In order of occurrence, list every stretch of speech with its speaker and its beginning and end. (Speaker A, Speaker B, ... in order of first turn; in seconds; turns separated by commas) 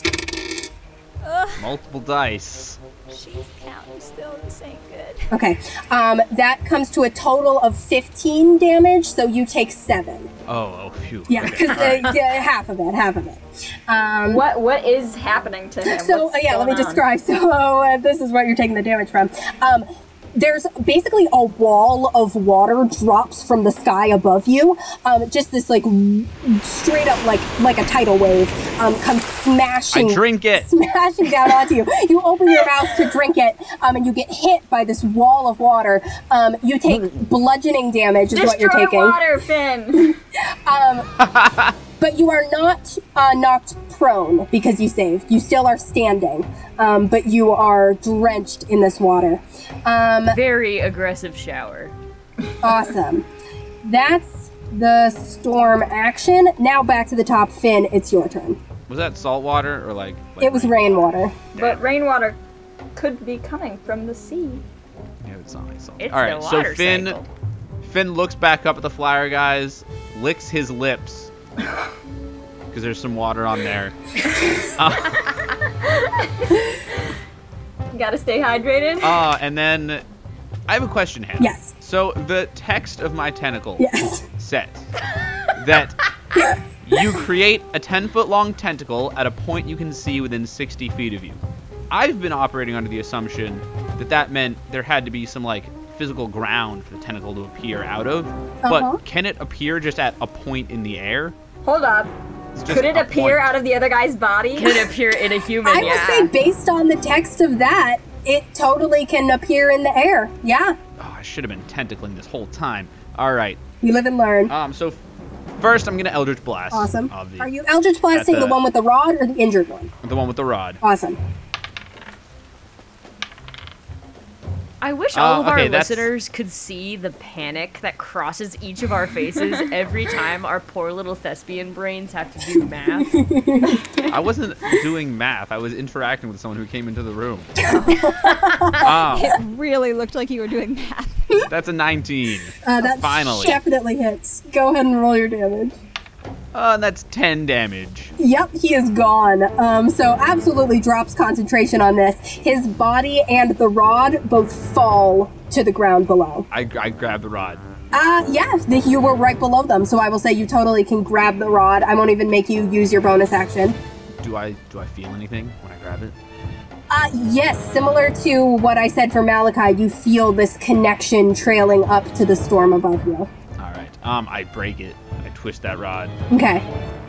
Speaker A: 1.2-1.7, Speaker B: 1.6-2.8, Speaker A: 3.1-5.3, Speaker C: 5.3-10.3, Speaker B: 10.5-12.2, Speaker C: 11.3-14.4, Speaker D: 14.3-17.0, Speaker C: 15.8-39.2, Speaker B: 29.9-30.7, Speaker D: 38.3-40.1, Speaker C: 40.7-41.1, Speaker B: 41.3-41.7, Speaker C: 42.0-50.4, Speaker E: 50.3-52.0, Speaker C: 52.6-53.3, Speaker C: 53.8-58.6, Speaker B: 58.9-61.8, Speaker C: 60.4-61.4, Speaker D: 61.6-62.4, Speaker D: 63.0-64.6, Speaker B: 65.2-67.2, Speaker E: 66.0-67.3, Speaker B: 67.8-71.3, Speaker B: 72.7-75.3, Speaker D: 75.8-77.1, Speaker D: 77.9-79.2, Speaker B: 79.0-80.0, Speaker B: 80.7-84.9, Speaker C: 81.4-81.7, Speaker C: 83.8-84.2, Speaker B: 85.5-86.1, Speaker C: 86.3-86.6, Speaker B: 86.8-101.4, Speaker C: 98.6-99.0, Speaker D: 101.6-102.1, Speaker B: 102.5-103.5, Speaker D: 102.7-104.9, Speaker E: 104.5-106.3, Speaker C: 105.7-110.8, Speaker B: 111.0-113.6, Speaker C: 113.8-114.5, Speaker B: 114.5-115.0, Speaker B: 115.6-117.5, Speaker C: 116.7-119.9, Speaker B: 118.1-118.6, Speaker B: 120.0-120.8, Speaker C: 120.8-121.2, Speaker E: 124.8-133.2, Speaker B: 125.1-126.1, Speaker C: 133.0-133.8, Speaker B: 134.1-137.6, Speaker C: 137.6-138.9, Speaker B: 138.8-139.4, Speaker A: 139.0-141.5, Speaker B: 141.5-143.6, Speaker C: 142.6-145.8, Speaker B: 146.5-148.1, Speaker C: 148.2-156.5, Speaker B: 156.5-157.6, Speaker C: 157.9-163.8, Speaker B: 164.2-166.2, Speaker C: 166.9-173.3, Speaker B: 173.6-176.1, Speaker C: 176.3-176.7